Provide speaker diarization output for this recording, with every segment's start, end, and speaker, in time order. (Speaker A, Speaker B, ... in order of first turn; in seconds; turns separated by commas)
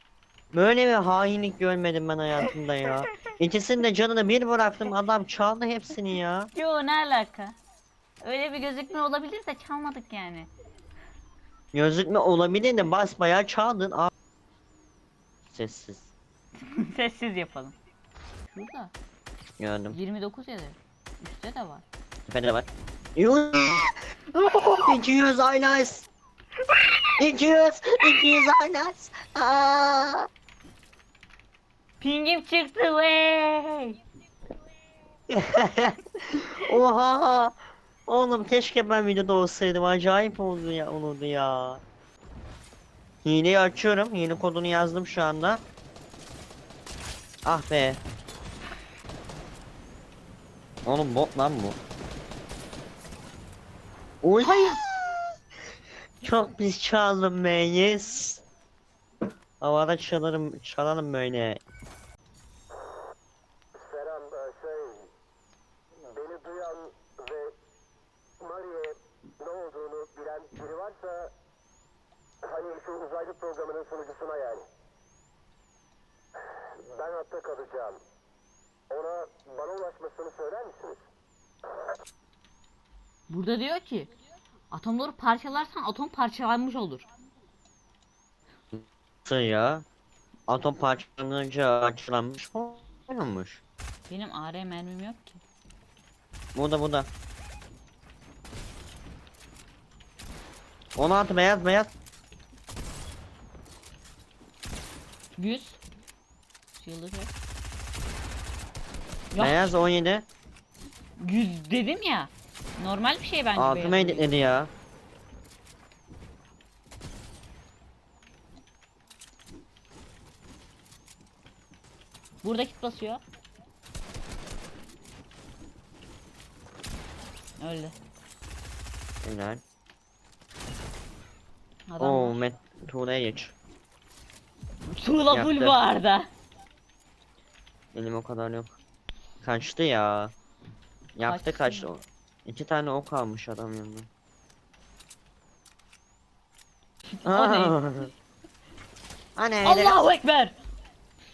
Speaker A: 0.5-6.5, Speaker B: 2.5-3.0, Speaker B: 6.5-7.6, Speaker B: 8.2-10.5, Speaker A: 11.7-14.1, Speaker A: 15.5-16.1, Speaker B: 16.6-17.8, Speaker B: 18.5-18.9, Speaker A: 19.6-20.0, Speaker B: 19.9-21.9, Speaker A: 22.3-23.9, Speaker B: 24.4-24.9, Speaker A: 24.8-26.1, Speaker A: 27.2-30.3, Speaker B: 32.0-34.0, Speaker A: 35.3-37.5, Speaker A: 38.1-41.8, Speaker A: 43.2-45.6, Speaker A: 47.5-48.0, Speaker A: 50.9-51.8, Speaker A: 54.2-54.9, Speaker B: 54.4-54.8, Speaker A: 56.2-58.4, Speaker A: 59.6-61.6, Speaker C: 63.8-65.1, Speaker C: 66.1-67.5, Speaker C: 68.4-71.3, Speaker C: 72.5-74.7, Speaker C: 76.9-78.0, Speaker C: 78.9-81.0, Speaker B: 83.3-84.1, Speaker B: 84.7-87.1, Speaker A: 88.7-89.8, Speaker A: 90.5-93.6, Speaker B: 94.1-95.4, Speaker A: 96.5-97.1, Speaker A: 101.0-101.9, Speaker B: 105.4-105.8, Speaker B: 106.8-107.3, Speaker B: 109.3-109.8, Speaker A: 109.4-110.3, Speaker B: 111.2-114.4, Speaker A: 113.5-114.7, Speaker B: 122.4-123.2, Speaker B: 127.6-128.0, Speaker A: 129.2-129.6, Speaker B: 131.9-132.4, Speaker A: 132.0-133.5, Speaker B: 134.8-136.3, Speaker A: 135.3-135.8, Speaker A: 137.9-138.7, Speaker A: 139.4-140.3, Speaker A: 141.2-144.1, Speaker B: 141.2-141.9, Speaker B: 147.1-147.8, Speaker A: 147.2-148.1, Speaker A: 149.4-150.0, Speaker B: 149.6-150.6